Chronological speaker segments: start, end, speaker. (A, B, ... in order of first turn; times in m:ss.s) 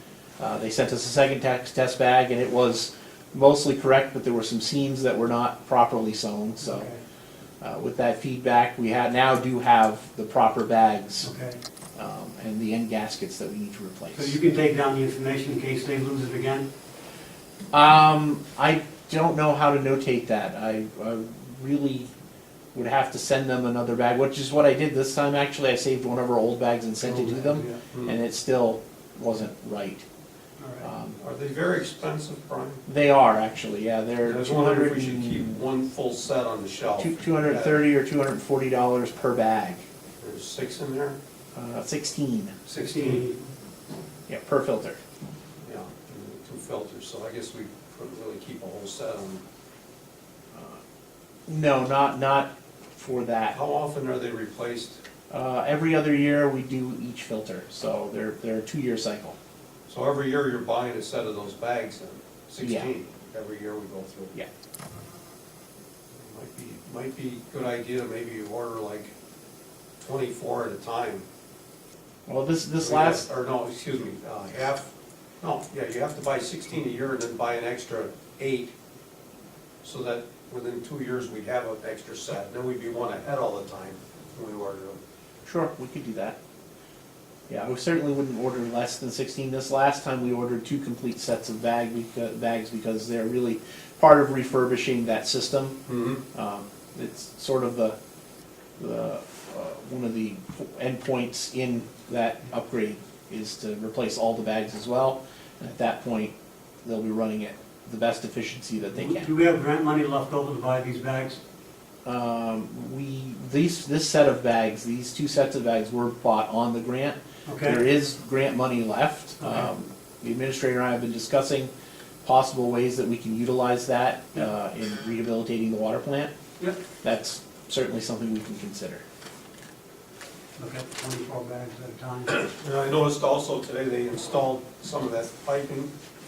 0:00.4-0:06.9 A
0:06.6-0:07.0 B
0:07.6-0:11.3 A
0:11.2-0:11.6 B
0:12.0-0:14.4 A
0:14.1-0:16.7 B
0:17.7-0:22.1 A
0:22.7-0:30.0 A
0:27.0-0:27.8 B
0:27.9-0:28.2 C
0:30.6-0:30.9 B
0:30.8-0:31.2 A
0:31.2-0:32.8 C
0:32.9-0:35.5 A
0:34.2-0:37.8 C
0:37.0-0:39.8 A
0:40.2-0:41.2 C
0:41.5-0:42.5 A
0:42.7-0:43.2 C
0:42.7-0:43.4 B
0:44.3-0:45.0 A
0:45.6-0:49.4 C
0:50.5-0:50.8 A
0:51.5-0:53.6 A
0:53.5-0:55.0 C
0:55.3-0:59.4 A
0:59.9-1:04.4 C
1:02.6-1:02.9 A
1:06.1-1:09.1 C
1:10.0-1:11.2 C
1:12.3-1:13.2 A
1:12.8-1:18.7 C
1:19.8-1:25.0 C
1:25.4-1:26.4 A
1:27.5-1:35.8 A
1:35.9-1:36.2 C
1:36.3-1:38.0 A
1:38.8-1:46.3 A
1:46.8-1:49.3 A
1:48.9-1:51.4 B
1:52.0-2:01.7 A
1:57.4-1:57.8 B
1:59.4-1:59.7 B
2:02.2-2:06.3 A
2:07.0-2:09.0 A
2:10.6-2:12.4 B
2:12.4-2:15.9 C